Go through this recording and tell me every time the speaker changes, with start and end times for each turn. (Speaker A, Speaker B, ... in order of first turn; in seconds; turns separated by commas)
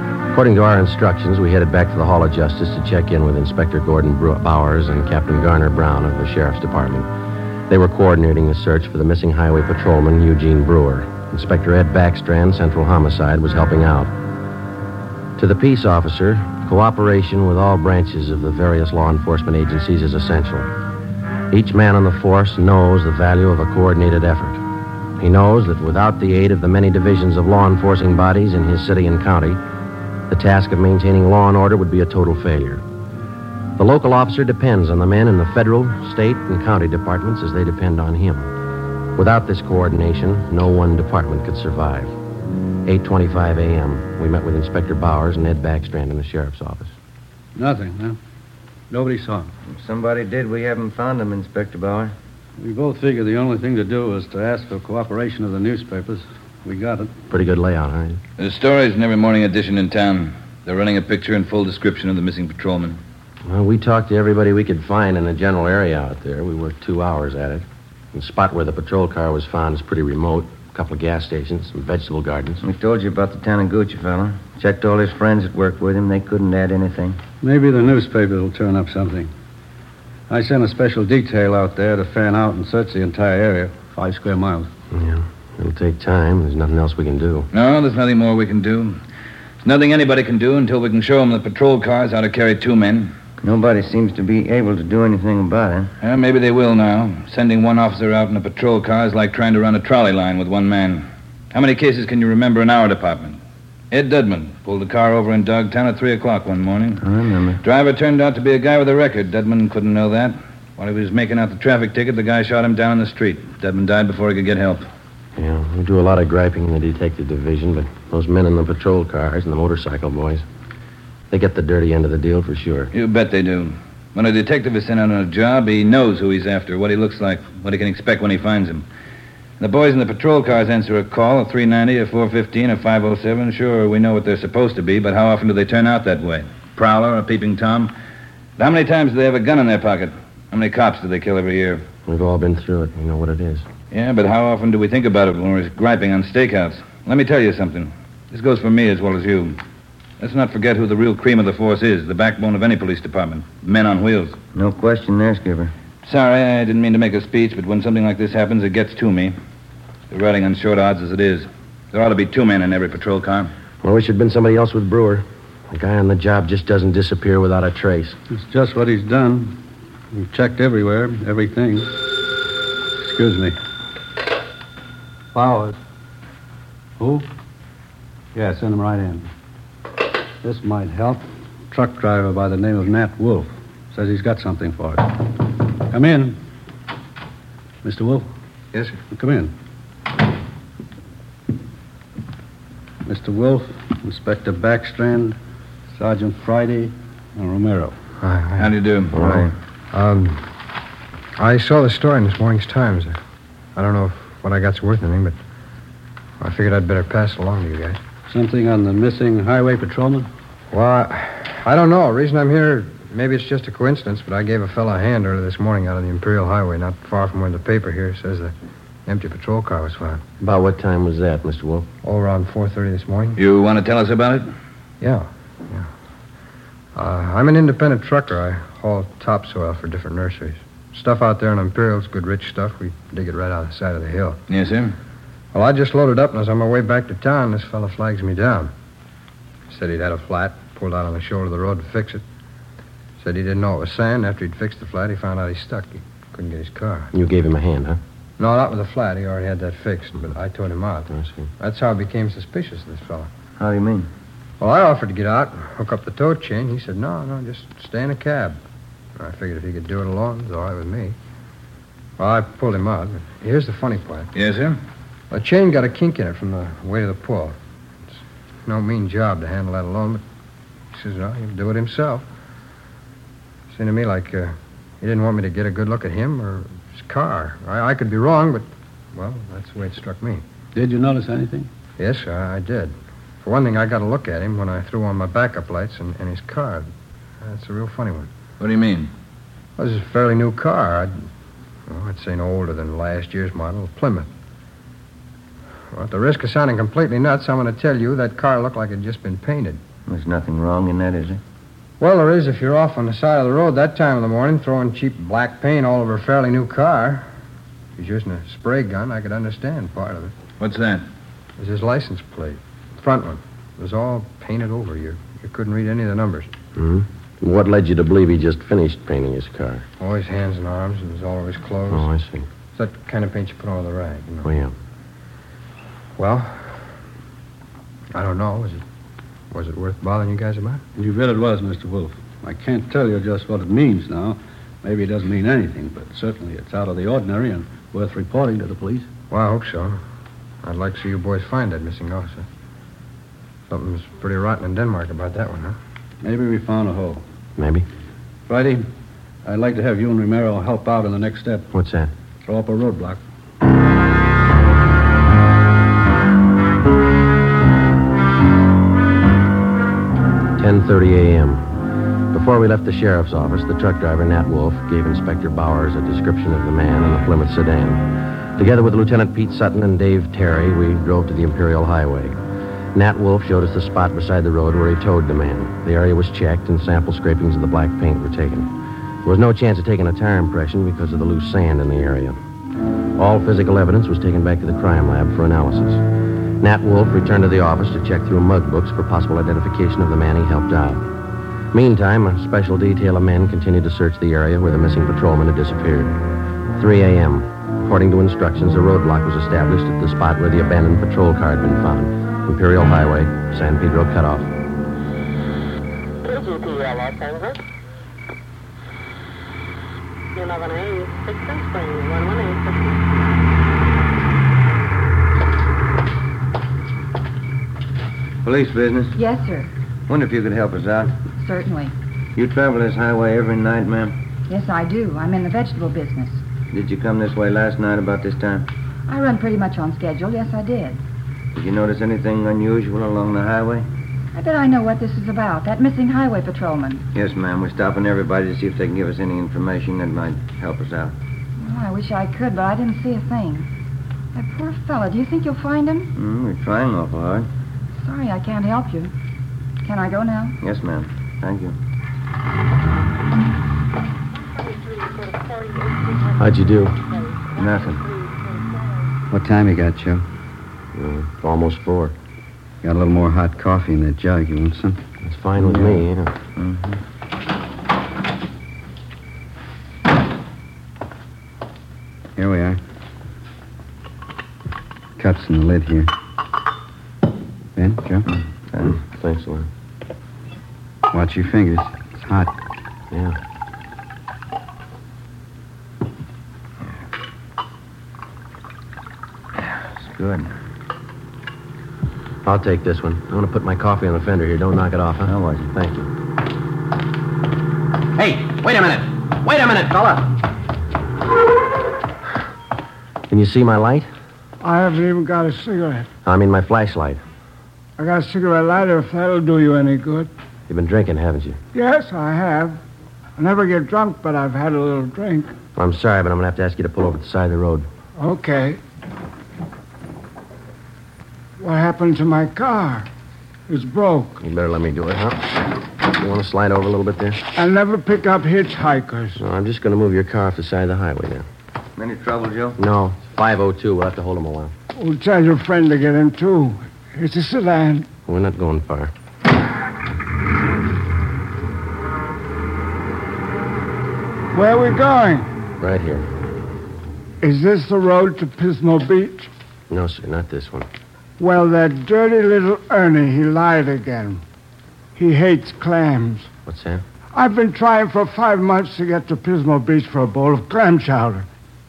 Speaker A: 0.3-7.1, Speaker A: 7.7-14.1, Speaker A: 15.4-20.7, Speaker A: 21.5-24.6, Speaker A: 25.2-29.6, Speaker A: 30.3-32.8, Speaker A: 33.8-38.5, Speaker A: 39.1-42.1, Speaker A: 42.8-46.9, Speaker B: 47.5-48.2, Speaker B: 48.9-49.5, Speaker C: 49.6-52.1, Speaker B: 52.6-57.1, Speaker A: 57.3-58.2, Speaker D: 58.4-63.0, Speaker A: 63.4-72.6, Speaker C: 72.6-77.2, Speaker B: 77.4-79.3, Speaker B: 80.3-84.7, Speaker A: 84.9-87.5, Speaker D: 87.5-89.0, Speaker D: 89.6-93.1, Speaker C: 93.4-95.9, Speaker D: 96.0-107.0, Speaker C: 107.0-107.6, Speaker D: 107.6-114.8, Speaker A: 115.3-120.4, Speaker A: 121.3-122.9, Speaker D: 122.9-128.8, Speaker D: 129.6-137.9, Speaker D: 138.6-141.9, Speaker A: 142.1-143.7, Speaker D: 143.9-149.6, Speaker D: 150.2-154.4, Speaker C: 154.5-155.7, Speaker D: 156.0-159.3, Speaker D: 160.1-163.5, Speaker A: 163.8-168.2, Speaker B: 168.3-169.6, Speaker B: 170.1-171.9, Speaker B: 173.0-173.6, Speaker B: 175.3-175.8, Speaker B: 177.0-177.3, Speaker B: 178.3-179.3, Speaker B: 180.4-186.4, Speaker B: 187.8-188.3, Speaker B: 189.0-189.5, Speaker B: 193.0-195.4, Speaker B: 195.9-197.9, Speaker E: 198.2-199.3, Speaker D: 198.6-199.2, Speaker C: 199.2-199.5, Speaker E: 199.9-200.5, Speaker E: 201.4-203.1, Speaker E: 203.8-205.4, Speaker E: 206.4-208.0, Speaker B: 208.3-210.3, Speaker E: 210.7-218.5, Speaker E: 219.1-220.2, Speaker A: 220.4-221.9, Speaker E: 222.0-223.4, Speaker D: 223.3-224.5, Speaker E: 225.0-225.9, Speaker E: 226.9-234.4, Speaker D: 234.5-234.9, Speaker E: 235.5-238.7, Speaker E: 239.7-242.2, Speaker E: 243.2-247.1, Speaker A: 247.1-248.0, Speaker E: 248.4-253.3, Speaker A: 251.1-251.4, Speaker C: 253.6-254.1, Speaker E: 254.6-258.6, Speaker E: 259.2-261.1, Speaker E: 262.2-264.3, Speaker D: 264.3-264.8, Speaker E: 265.3-267.5, Speaker E: 268.6-270.2, Speaker E: 270.9-272.2, Speaker E: 273.7-280.4, Speaker B: 280.7-281.7, Speaker E: 282.0-286.9, Speaker E: 287.4-288.3, Speaker D: 288.6-289.1, Speaker E: 289.8-291.2, Speaker E: 291.9-294.3, Speaker E: 295.9-299.8, Speaker C: 300.1-301.4, Speaker E: 302.0-307.3, Speaker E: 308.0-310.3, Speaker D: 310.6-311.1, Speaker E: 311.6-316.5, Speaker A: 316.7-319.9, Speaker E: 320.0-322.1, Speaker A: 321.9-322.5, Speaker E: 322.7-324.5, Speaker A: 324.4-324.7, Speaker E: 326.2-326.8, Speaker E: 328.1-328.8, Speaker E: 329.5-330.8, Speaker B: 330.9-339.1, Speaker E: 339.3-340.0, Speaker E: 340.6-342.4, Speaker E: 343.7-345.8, Speaker B: 346.2-347.2, Speaker A: 347.6-347.9, Speaker B: 348.5-348.9, Speaker B: 349.4-351.7, Speaker A: 351.7-352.1, Speaker B: 352.4-353.2, Speaker A: 360.6-361.7, Speaker A: 362.3-372.4, Speaker A: 372.9-382.4, Speaker A: 383.1-386.0, Speaker A: 386.6-391.0, Speaker A: 391.7-396.2, Speaker A: 396.7-404.5, Speaker F: 406.2-407.6, Speaker F: 410.3-413.0, Speaker C: 418.4-419.1, Speaker G: 419.1-419.7, Speaker C: 420.1-421.1, Speaker G: 421.4-421.9, Speaker C: 422.4-424.1, Speaker G: 424.5-426.4, Speaker C: 426.7-428.7, Speaker G: 429.1-431.0, Speaker C: 431.5-433.8, Speaker G: 434.3-437.1, Speaker C: 437.1-441.1, Speaker G: 441.6-443.7, Speaker G: 444.3-446.1, Speaker C: 446.1-447.5, Speaker G: 447.9-449.1, Speaker G: 449.8-450.6, Speaker C: 450.6-451.8, Speaker F: 454.3-459.1, Speaker A: 456.4-457.0, Speaker C: 457.6-458.0, Speaker H: 459.3-460.2, Speaker A: 460.9-462.1, Speaker H: 462.8-465.0, Speaker A: 465.2-466.3, Speaker C: 465.6-466.0, Speaker C: 466.6-467.0, Speaker H: 472.4-472.8, Speaker H: 475.2-476.1, Speaker H: 477.8-478.2, Speaker A: 478.8-479.7, Speaker H: 481.1-482.5, Speaker A: 483.1-483.4, Speaker C: 489.6-490.5, Speaker A: 492.4-496.1, Speaker C: 495.3-495.7, Speaker A: 498.2-500.3, Speaker A: 503.3-504.1, Speaker I: 504.6-506.1, Speaker A: 506.2-507.2, Speaker I: 508.0-510.3, Speaker A: 510.7-511.6, Speaker I: 511.7-512.8, Speaker I: 513.4-515.5, Speaker A: 515.8-517.9, Speaker I: 518.2-518.8, Speaker I: 521.6-523.1, Speaker I: 523.7-524.4, Speaker A: 524.4-527.4, Speaker I: 527.5-529.4, Speaker A: 529.4-531.4, Speaker C: 532.0-532.8, Speaker A: 532.8-534.7, Speaker I: 534.9-538.1, Speaker A: 538.3-539.1, Speaker I: 544.5-545.5, Speaker A: 545.8-546.3, Speaker I: 547.4-549.5, Speaker A: 549.9-550.9, Speaker I: 551.4-554.4, Speaker I: 555.1-556.5, Speaker A: 556.6-557.0, Speaker I: 557.3-561.5